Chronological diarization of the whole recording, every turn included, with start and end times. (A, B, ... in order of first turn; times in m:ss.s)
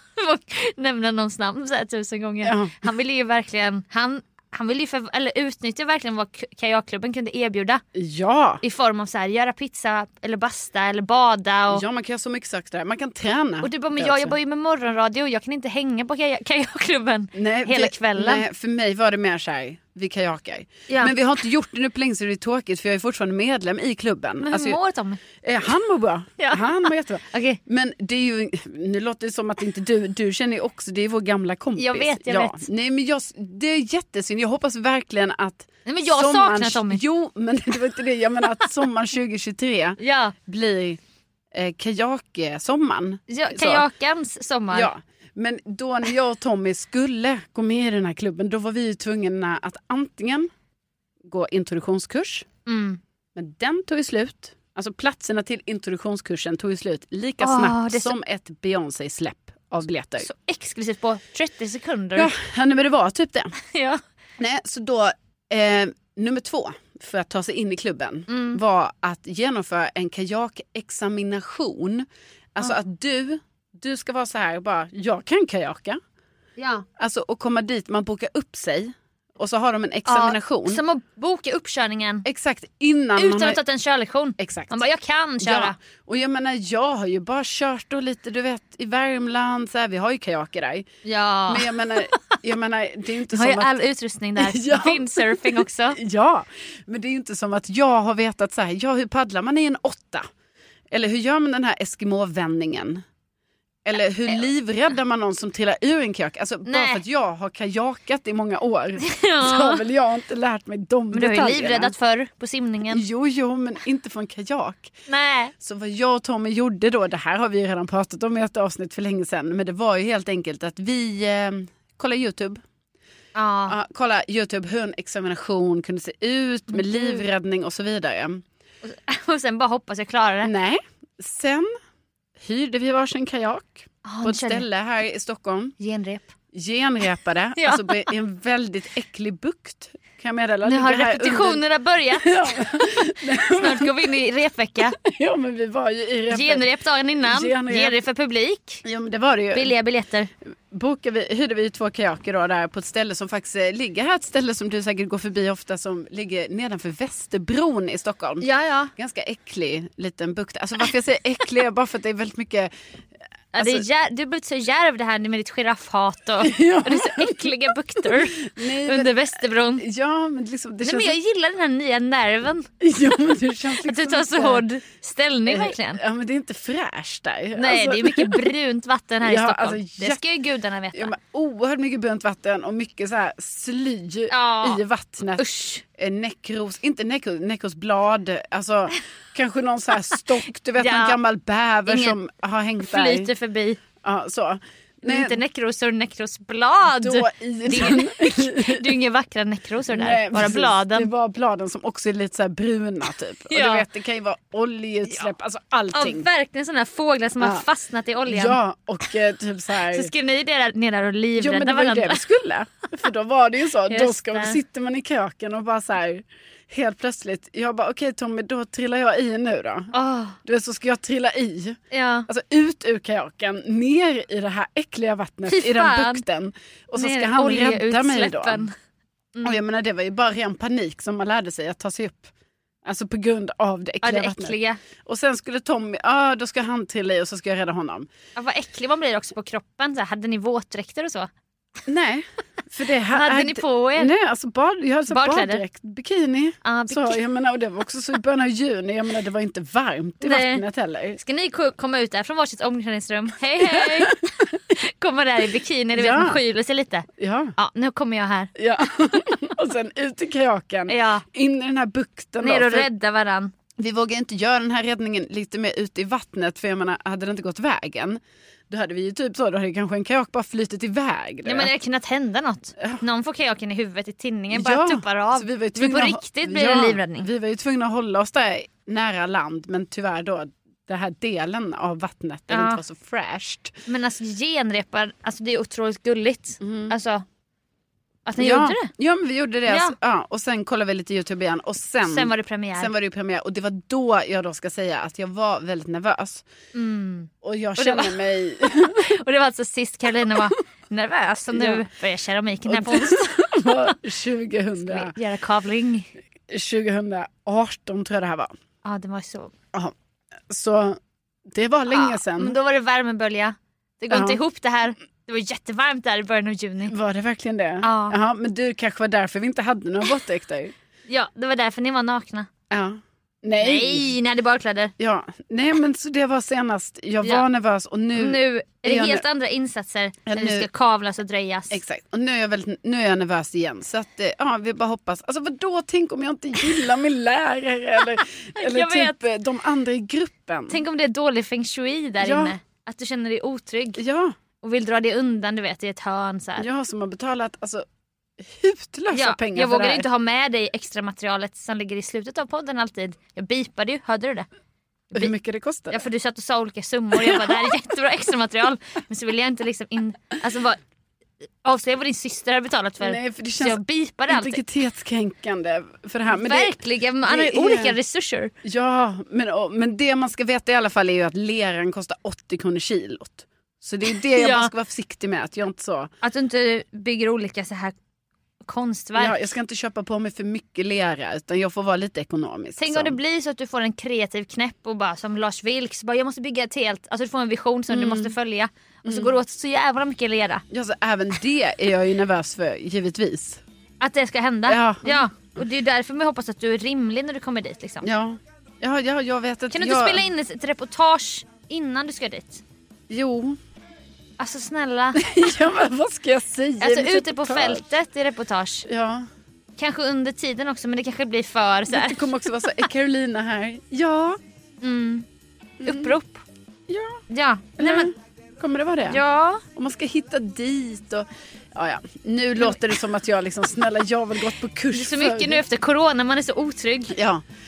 0:00.2-0:07.8 A
0:02.4-0:02.7 B
0:08.0-0:08.6 B
0:08.6-0:11.8 A
0:11.7-0:14.3 B
0:13.6-0:18.4 A
0:17.4-0:24.8 B
0:20.9-0:21.1 A
0:24.4-0:25.2 A
0:25.4-0:41.0 B
0:26.4-0:27.6 A
0:31.8-0:32.7 A
0:35.9-0:37.0 A
0:40.0-0:40.4 A
0:41.5-0:43.8 B
0:43.3-0:44.9 A
0:44.7-0:50.5 B
0:51.3-0:52.5 B
0:52.7-0:53.0 A
0:53.4-1:00.3 B
0:57.4-0:58.1 A
1:00.2-1:02.3 A
1:02.2-1:03.6 B
1:03.7-1:04.0 A
1:04.4-1:16.0 B
1:08.3-1:08.6 A
1:16.6-1:16.8 A
1:17.0-1:20.8 B
1:20.1-1:22.2 A
1:22.2-1:23.6 B
1:23.2-1:25.8 A
1:24.4-1:24.8 B
1:25.4-1:30.9 B
1:31.0-1:32.4 A
1:31.5-1:33.7 B
1:33.3-1:36.0 A
1:34.4-1:40.3 B
1:40.9-1:43.0 B
1:43.8-1:51.9 B
1:46.7-1:47.0 A
1:49.0-1:49.8 A
1:51.1-1:53.0 A
1:52.9-1:54.9 B
1:55.1-1:55.5 A
1:55.6-2:02.6 B
2:03.4-2:03.8 A
2:03.7-2:08.4 B
2:06.7-2:07.2 A
2:08.8-2:10.5 A
2:10.4-2:11.7 B
2:12.4-2:15.8 B
2:14.0-2:14.6 A
2:15.8-2:16.3 A
2:16.5-2:21.6 B
2:17.6-2:18.1 A
2:20.6-2:25.0 A
2:22.2-2:23.9 B
2:25.0-2:26.6 B
2:26.3-2:28.8 A
2:27.2-2:28.0 B
2:28.8-2:29.7 B
2:29.5-2:30.3 A
2:30.7-2:38.4 B
2:38.4-2:38.9 A
2:39.0-2:42.7 B
2:43.5-2:49.8 A
2:43.6-2:43.8 B
2:46.4-2:47.5 B
2:48.1-2:49.1 B
2:49.8-2:51.2 B
2:50.8-2:52.7 A
2:52.8-2:54.6 B
2:53.8-2:56.0 A
2:55.5-2:58.5 B
2:57.6-3:01.1 A
2:59.2-3:00.2 B
3:00.9-3:05.4 B
3:04.3-3:04.8 A
3:05.4-3:05.8 A
3:06.0-3:13.3 B
3:10.8-3:11.2 A
3:11.9-3:12.2 A
3:12.8-3:13.8 A
3:14.0-3:15.4 B
3:15.0-3:21.1 A
3:17.0-3:18.9 B
3:19.9-3:26.3 B
3:23.5-3:23.9 A
3:25.9-3:28.6 A
3:28.3-3:30.1 B
3:29.9-3:32.2 A
3:31.4-3:39.9 B
3:33.9-3:34.6 A
3:39.9-3:40.4 A
3:40.4-3:48.6 B
3:41.9-3:42.3 A
3:45.5-3:46.2 A
3:47.0-3:48.7 A
3:49.4-3:52.3 B
3:52.8-3:58.1 B
3:54.0-3:54.8 A
3:58.4-4:01.3 A
4:01.9-4:11.2 B
4:03.1-4:04.1 A
4:05.1-4:05.6 A
4:06.6-4:07.2 A
4:10.2-4:10.6 A
4:11.2-4:14.2 A
4:13.6-4:14.1 B
4:14.7-4:18.5 A
4:16.0-4:16.4 B
4:17.2-4:17.5 B
4:18.6-4:22.9 B
4:20.9-4:21.2 A
4:22.4-4:23.5 A
4:23.8-4:31.7 B
4:31.4-4:37.3 A
4:34.5-4:43.7 B
4:42.5-4:42.8 A
4:43.9-4:47.2 A
4:46.6-4:47.0 B
4:48.3-4:48.9 A
4:48.4-4:56.4 B
4:49.7-4:50.0 A
4:52.0-4:52.9 A
4:56.7-5:03.9 A
4:57.4-4:59.1 B
5:01.5-5:01.8 B
5:02.7-5:05.1 B
5:04.8-5:06.1 A
5:06.5-5:08.5 B
5:08.8-5:09.5 A
5:10.5-5:11.0 B
5:11.5-5:12.6 B
5:11.9-5:16.9 A
5:14.1-5:14.4 B
5:16.9-5:20.7 B
5:17.8-5:18.2 A
5:21.1-5:22.5 A
5:22.7-5:24.1 B
5:23.6-5:24.9 A
5:25.0-5:29.2 B
5:28.2-5:31.8 A
5:30.3-5:30.7 B
5:31.7-5:40.8 B
5:38.6-5:39.2 A
5:40.7-5:44.0 A
5:42.2-5:42.5 B
5:44.0-5:44.4 B
5:44.6-5:46.7 A
5:46.6-5:47.9 B
5:48.4-5:50.0 B
5:49.1-5:54.5 A
5:55.1-5:56.0 B
5:55.9-6:00.8 A
5:57.2-5:57.5 B
6:01.6-6:04.6 A
6:03.0-6:06.7 B
6:06.3-6:08.5 A
6:07.3-6:08.0 B
6:08.6-6:16.1 B
6:14.3-6:14.7 A
6:16.2-6:18.0 A
6:18.7-6:19.4 A
6:19.2-6:23.2 B
6:22.8-6:30.6 A
6:27.9-6:28.3 B
6:29.1-6:29.3 B
6:30.7-6:33.6 B
6:34.0-6:38.1 A
6:34.7-6:35.2 B
6:38.0-6:40.2 B
6:39.7-6:42.6 A
6:43.1-6:43.6 B
6:44.4-6:45.2 A
6:45.2-6:47.8 B
6:46.8-6:48.9 A
6:48.9-6:49.3 B
6:49.8-6:52.9 A
6:51.9-6:54.4 B
6:54.8-6:55.3 A
6:55.8-6:56.2 B
6:55.8-6:56.4 A
6:56.9-6:57.2 B
6:57.3-6:58.1 A
6:57.8-6:59.2 B
6:59.1-6:59.6 A
6:59.8-7:05.6 B
7:02.6-7:02.9 A
7:04.9-7:07.2 A
7:07.1-7:07.4 B